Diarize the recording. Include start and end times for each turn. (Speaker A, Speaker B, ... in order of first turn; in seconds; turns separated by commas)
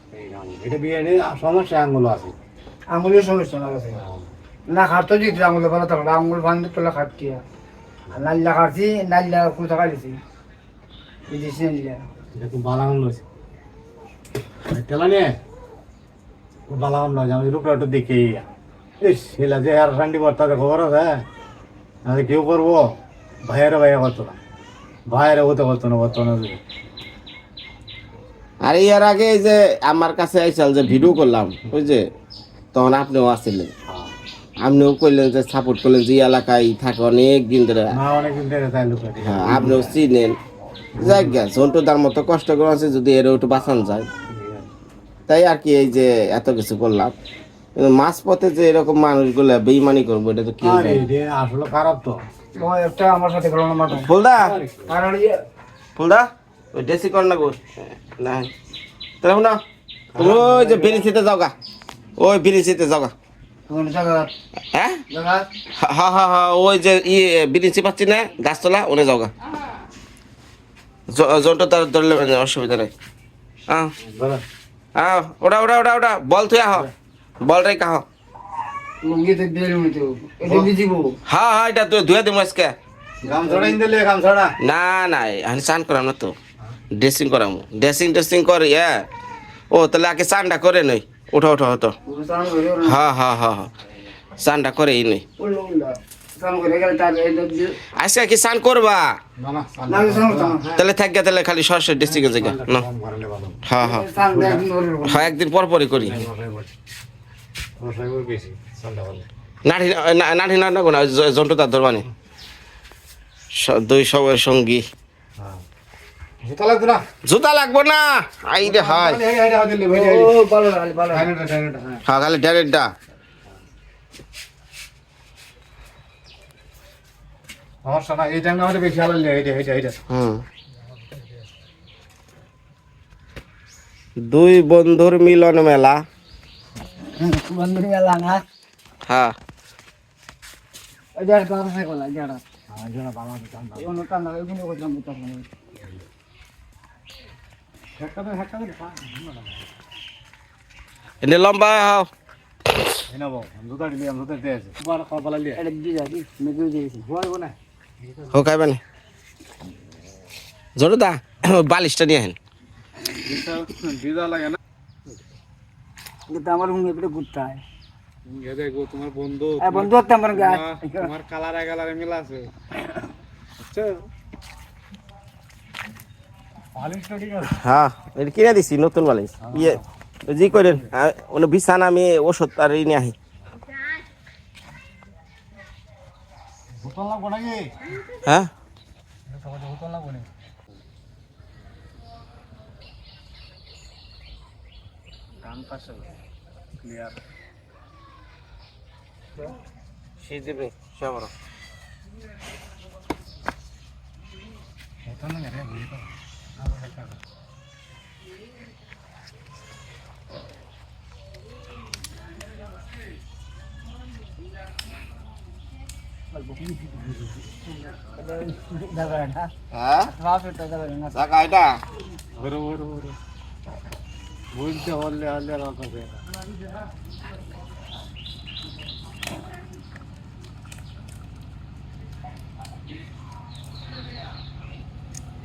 Speaker A: 0.1-2.4, Speaker B: 2.9-4.0, Speaker A: 3.9-4.3, Speaker B: 4.7-7.4, Speaker B: 8.1-10.2, Speaker B: 11.3-12.1, Speaker A: 12.3-13.2, Speaker A: 14.7-15.3, Speaker A: 16.7-18.5, Speaker A: 19.0-21.2, Speaker A: 22.1-22.9, Speaker A: 23.4-24.4, Speaker A: 25.1-26.6, Speaker C: 28.6-32.0, Speaker C: 32.7-33.7, Speaker A: 33.9-34.1, Speaker C: 34.6-37.9, Speaker A: 37.9-40.0, Speaker C: 39.2-40.4, Speaker A: 41.0-41.4, Speaker C: 41.0-44.1, Speaker A: 44.3-44.7, Speaker C: 45.3-47.1, Speaker C: 47.8-51.0, Speaker A: 50.6-52.2, Speaker B: 52.6-54.1, Speaker C: 53.9-54.5, Speaker A: 54.4-54.9, Speaker B: 54.9-55.4, Speaker C: 56.0-57.6, Speaker C: 58.2-58.5, Speaker C: 59.2-59.6, Speaker A: 60.1-61.0, Speaker C: 60.2-61.5, Speaker C: 62.2-63.1, Speaker B: 63.7-64.3, Speaker C: 64.7-65.0, Speaker B: 65.1-65.5, Speaker C: 65.8-69.3, Speaker C: 71.1-72.9, Speaker A: 74.0-74.4, Speaker C: 75.0-76.9, Speaker C: 77.4-78.0, Speaker B: 79.0-81.2, Speaker A: 80.5-80.7, Speaker C: 81.3-82.7, Speaker A: 83.2-84.5, Speaker B: 83.2-83.8, Speaker C: 84.6-86.3, Speaker C: 87.0-88.9, Speaker C: 89.7-91.9, Speaker B: 92.1-93.0, Speaker C: 92.8-93.7, Speaker C: 94.4-95.2, Speaker B: 95.4-97.8, Speaker C: 98.0-99.2, Speaker A: 99.4-100.7, Speaker B: 99.9-100.8, Speaker C: 100.7-102.8, Speaker A: 102.0-103.6, Speaker C: 103.7-104.1, Speaker B: 103.8-105.3, Speaker A: 104.2-104.7, Speaker C: 105.0-106.2, Speaker A: 105.9-106.7, Speaker A: 107.8-109.3, Speaker C: 109.7-112.0, Speaker C: 113.6-114.8, Speaker A: 115.4-115.6, Speaker A: 116.4-117.0, Speaker C: 117.3-119.2, Speaker A: 118.6-120.4, Speaker B: 119.9-121.3, Speaker A: 121.1-122.0, Speaker C: 122.1-122.9, Speaker A: 127.8-130.0, Speaker C: 130.1-130.4, Speaker C: 134.2-136.0, Speaker B: 137.2-138.4, Speaker C: 139.1-139.3, Speaker B: 141.2-142.4, Speaker A: 142.7-143.9, Speaker B: 143.8-145.5, Speaker A: 148.0-149.7, Speaker C: 151.2-152.1, Speaker A: 153.1-155.6, Speaker B: 155.6-157.1, Speaker A: 157.0-158.4, Speaker C: 158.3-158.8, Speaker C: 160.8-162.4, Speaker A: 163.3-164.6, Speaker B: 166.3-167.6, Speaker A: 168.3-172.5, Speaker B: 169.6-171.1, Speaker A: 173.7-174.0, Speaker A: 176.8-177.6, Speaker C: 177.6-179.8, Speaker A: 179.4-179.8, Speaker C: 180.3-183.2, Speaker A: 186.8-187.7, Speaker A: 189.3-190.3, Speaker A: 195.4-196.1, Speaker A: 196.8-197.2, Speaker C: 200.2-201.3, Speaker A: 205.1-206.1, Speaker A: 206.6-207.2, Speaker B: 216.3-216.6, Speaker B: 218.2-219.5, Speaker C: 219.7-220.1, Speaker B: 220.1-221.2, Speaker C: 221.1-221.7, Speaker A: 222.4-223.2, Speaker A: 224.5-226.2